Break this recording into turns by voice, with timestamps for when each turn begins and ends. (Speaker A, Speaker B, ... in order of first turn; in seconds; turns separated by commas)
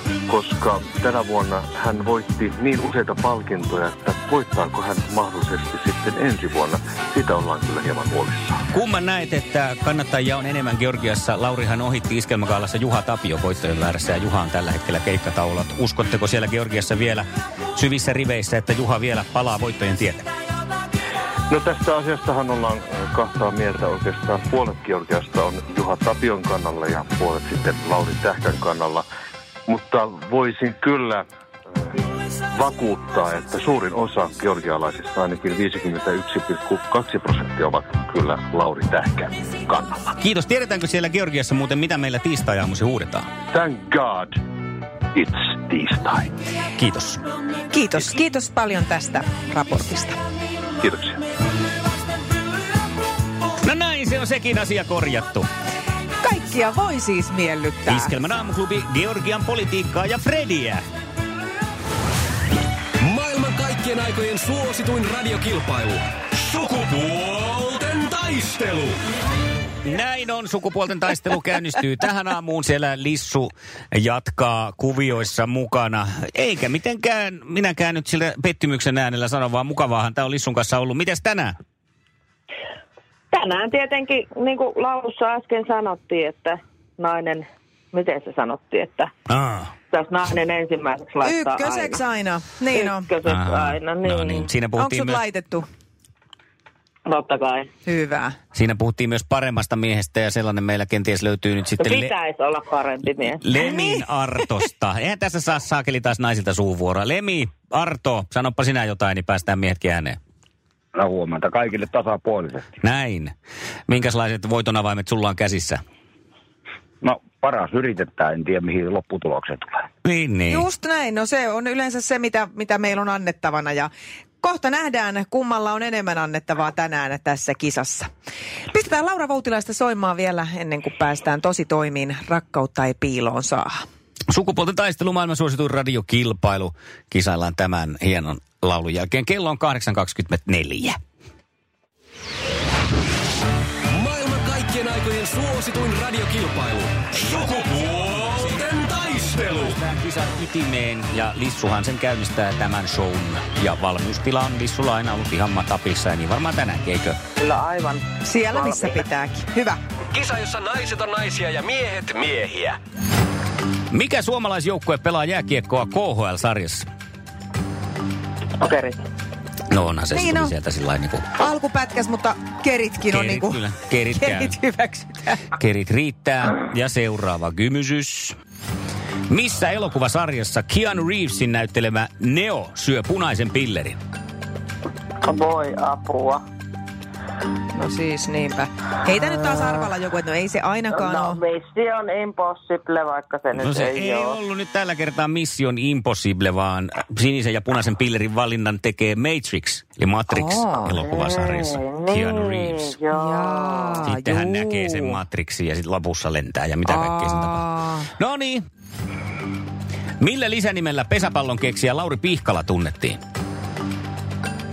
Speaker A: 0.3-8.6, Speaker B: 8.7-20.3, Speaker A: 21.5-29.1, Speaker A: 29.7-40.2, Speaker B: 40.2-43.3, Speaker A: 43.5-44.4, Speaker A: 45.1-46.3, Speaker B: 46.8-47.2, Speaker C: 47.7-50.2, Speaker A: 50.8-51.2, Speaker B: 53.6-55.5, Speaker C: 56.2-58.1, Speaker B: 57.9-60.8, Speaker D: 63.0-69.0, Speaker B: 69.8-81.5, Speaker E: 83.3-89.1, Speaker B: 89.3-89.7, Speaker E: 89.9-92.0, Speaker C: 91.2-93.1, Speaker E: 92.8-94.5, Speaker B: 93.2-95.2, Speaker C: 94.8-95.7, Speaker E: 97.1-97.7, Speaker C: 97.8-98.4, Speaker B: 98.5-102.2, Speaker E: 101.8-103.4, Speaker B: 103.4-110.2, Speaker C: 103.6-104.1, Speaker F: 111.0-112.7, Speaker B: 112.8-113.3, Speaker B: 113.9-115.8, Speaker F: 117.0-119.9, Speaker B: 120.0-120.7, Speaker C: 120.5-128.1, Speaker C: 128.7-133.8, Speaker B: 134.3-141.0, Speaker D: 143.9-149.8, Speaker B: 149.3-157.2, Speaker E: 157.4-158.0, Speaker C: 158.2-159.8, Speaker D: 160.1-162.8, Speaker B: 163.9-166.9, Speaker B: 169.7-171.3, Speaker C: 170.1-170.5, Speaker C: 171.4-173.6, Speaker B: 173.1-174.6, Speaker C: 174.2-175.5, Speaker B: 175.5-178.3, Speaker B: 179.3-184.0, Speaker E: 185.3-186.4, Speaker C: 187.7-191.4, Speaker E: 190.9-194.3, Speaker B: 193.5-203.0, Speaker C: 200.3-200.9, Speaker E: 201.3-203.8, Speaker C: 203.1-205.2, Speaker B: 204.0-207.6, Speaker C: 206.9-208.1, Speaker B: 208.2-208.6, Speaker B: 210.2-213.2